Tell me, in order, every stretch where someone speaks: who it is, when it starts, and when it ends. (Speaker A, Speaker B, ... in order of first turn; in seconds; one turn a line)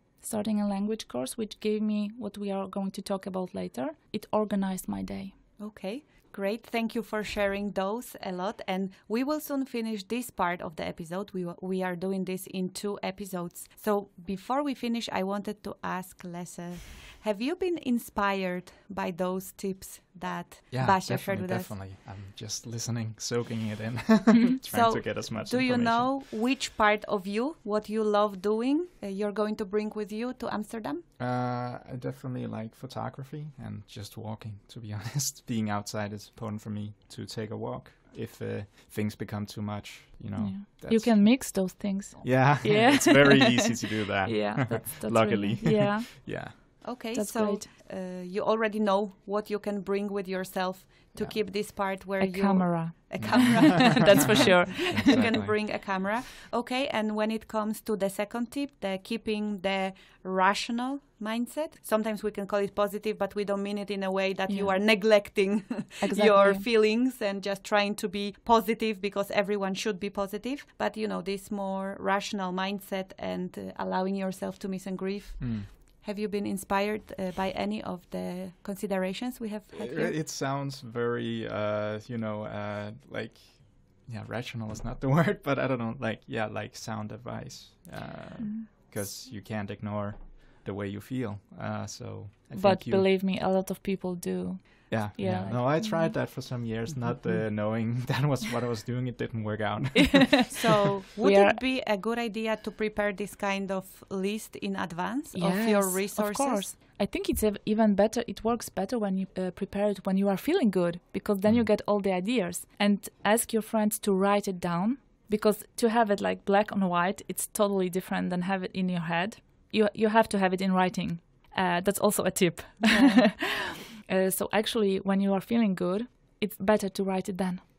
Speaker A: 0.2-5.3
Speaker B: 5.6-21.7
Speaker C: 20.7-26.2
Speaker B: 24.6-31.0
Speaker C: 31.2-46.6
Speaker A: 40.4-43.7
Speaker A: 44.2-47.7
Speaker B: 46.8-80.1
Speaker A: 52.2-55.3
Speaker C: 53.2-55.5
Speaker A: 64.5-64.8
Speaker A: 66.0-66.7
Speaker C: 75.4-75.7
Speaker C: 79.7-93.1
Speaker A: 88.4-88.7
Speaker A: 92.5-96.1
Speaker C: 94.9-100.6
Speaker A: 100.2-100.5
Speaker B: 100.5-106.7
Speaker A: 101.2-101.6
Speaker A: 105.3-127.6
Speaker B: 122.8-123.3